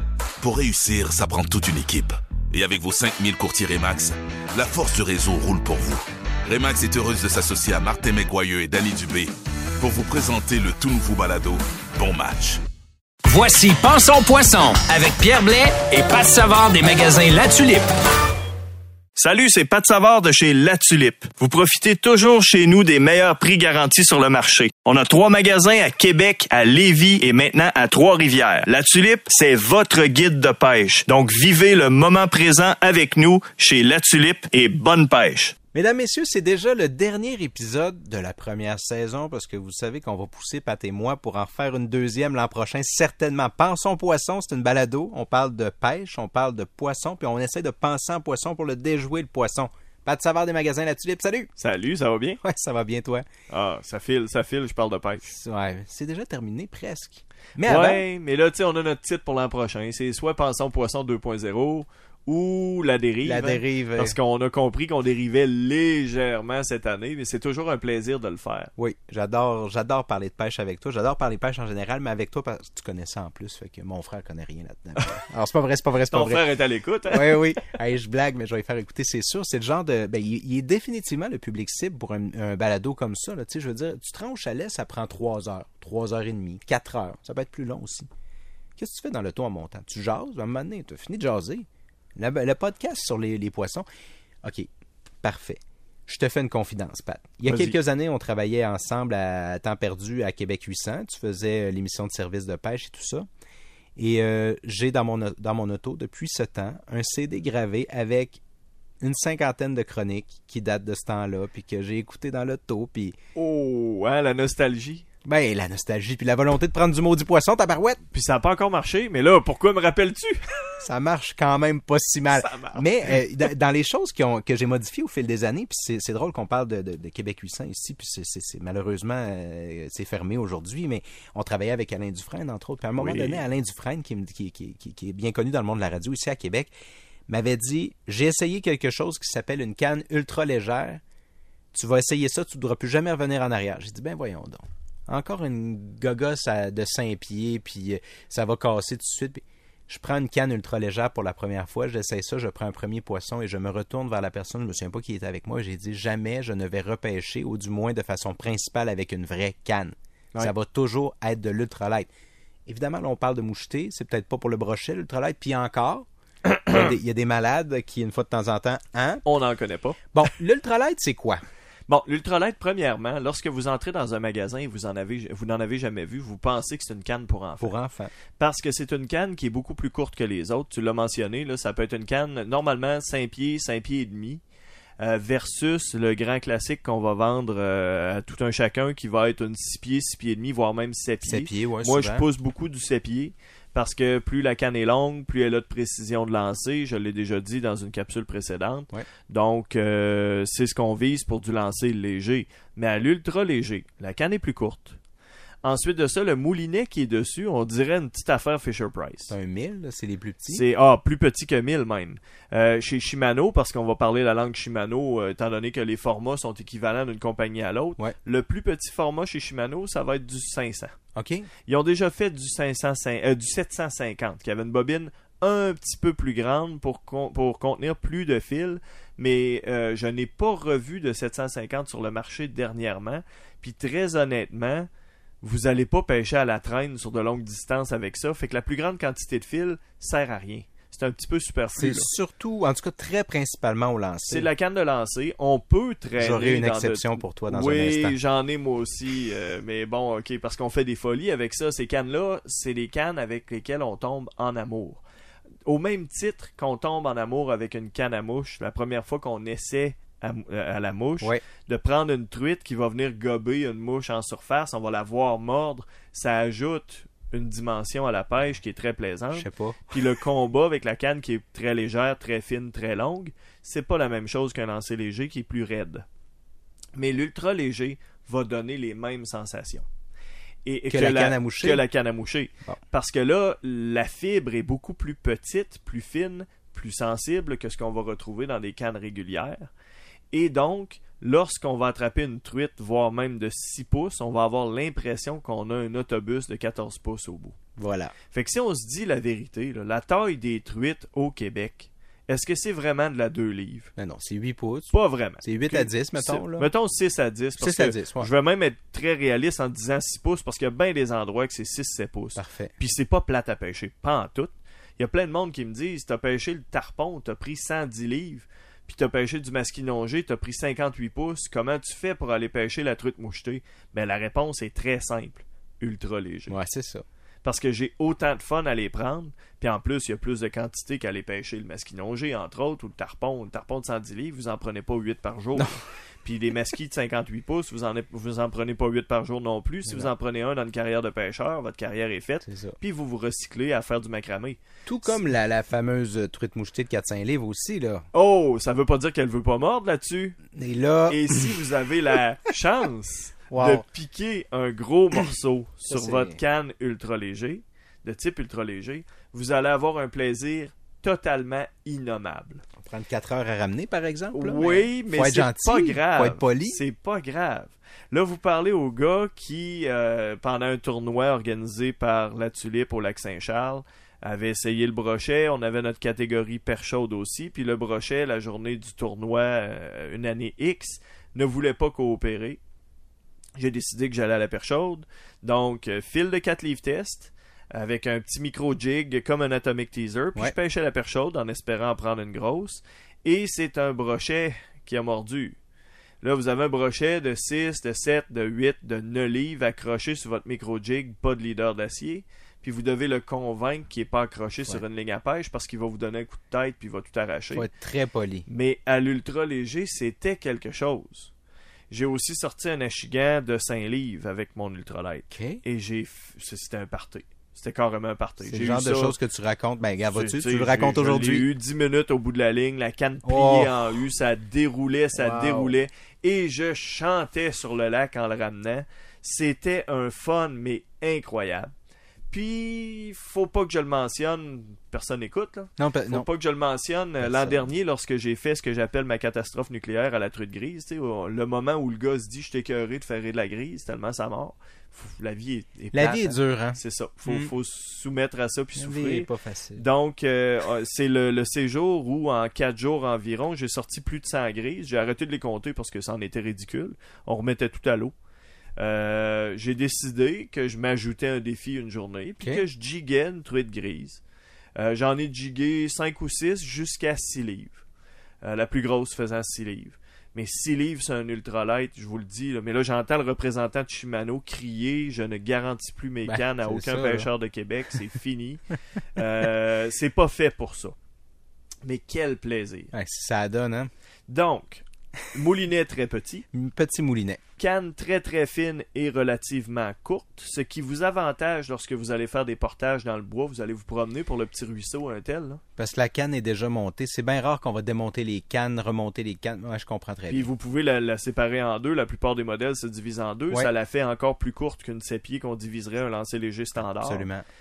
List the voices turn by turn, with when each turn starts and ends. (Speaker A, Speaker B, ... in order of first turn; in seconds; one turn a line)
Speaker A: 0.4-12.6
Speaker B: 13.2-17.9
Speaker C: 19.1-35.5
Speaker D: 35.7-51.5
Speaker C: 51.6-52.4
Speaker D: 52.4-53.2
Speaker C: 53.5-55.3
Speaker D: 55.2-58.0
Speaker C: 57.6-68.7
Speaker D: 63.2-64.2
Speaker D: 68.8-76.5
Speaker C: 76.1-77.5
Speaker D: 77.1-88.1
Speaker D: 88.8-91.7
Speaker D: 92.2-93.8
Speaker D: 94.4-94.7
Speaker D: 95.2-103.2
Speaker C: 97.5-97.8
Speaker D: 104.0-108.4
Speaker D: 109.0-113.2
Speaker C: 113.3-115.0
Speaker D: 115.2-118.0
Speaker C: 118.1-120.6
Speaker D: 120.8-136.7
Speaker C: 122.3-123.2
Speaker C: 132.9-133.4
Speaker D: 137.3-141.0
Speaker D: 141.7-162.1
Speaker D: 162.7-166.1
Speaker D: 166.7-169.2
Speaker C: 169.2-170.0
Speaker D: 170.1-171.4
Speaker C: 171.9-177.8
Speaker D: 177.6-178.1
Speaker C: 178.4-184.4
Speaker C: 185.0-205.0
Speaker D: 191.2-192.3
Speaker C: 205.6-209.3
Speaker D: 209.3-210.6
Speaker C: 210.5-220.9
Speaker D: 221.1-221.5
Speaker C: 221.7-234.9
Speaker C: 235.4-242.1
Speaker D: 241.7-244.5
Speaker C: 244.3-255.0
Speaker D: 246.2-248.2
Speaker C: 255.7-276.1
Speaker D: 269.3-269.9
Speaker C: 276.9-279.9
Speaker C: 280.6-289.7
Speaker D: 280.9-281.8
Speaker C: 290.3-297.6
Speaker D: 297.8-298.1
Speaker C: 298.3-303.9
Speaker D: 304.0-306.7
Speaker C: 304.9-326.6
Speaker D: 307.6-308.3
Speaker D: 312.4-312.7
Speaker D: 326.5-327.0
Speaker C: 327.4-345.2
Speaker D: 335.5-335.8
Speaker D: 339.9-340.1
Speaker D: 342.4-342.8
Speaker D: 344.9-348.1
Speaker C: 348.1-350.4
Speaker D: 350.5-351.6
Speaker C: 351.1-362.6
Speaker D: 353.5-353.8
Speaker D: 355.9-356.4
Speaker D: 362.8-366.8
Speaker C: 364.3-382.6
Speaker C: 383.6-395.6
Speaker C: 396.2-407.7
Speaker D: 407.5-408.5
Speaker C: 408.5-411.3
Speaker C: 411.9-419.1
Speaker D: 415.3-415.6
Speaker D: 418.4-421.5
Speaker C: 420.1-431.7
Speaker D: 423.2-423.7
Speaker D: 425.1-425.8
Speaker C: 432.3-458.1
Speaker D: 435.8-436.3
Speaker D: 437.2-437.7
Speaker D: 445.9-447.5
Speaker D: 448.8-449.8
Speaker C: 458.8-464.2
Speaker C: 464.8-467.8
Speaker C: 468.4-480.9
Speaker D: 476.2-477.3
Speaker C: 481.8-482.9
Speaker D: 482.9-483.9
Speaker C: 484.3-486.4
Speaker D: 486.5-487.4
Speaker C: 487.6-495.6
Speaker D: 495.8-500.5
Speaker C: 500.3-507.3
Speaker D: 506.8-507.4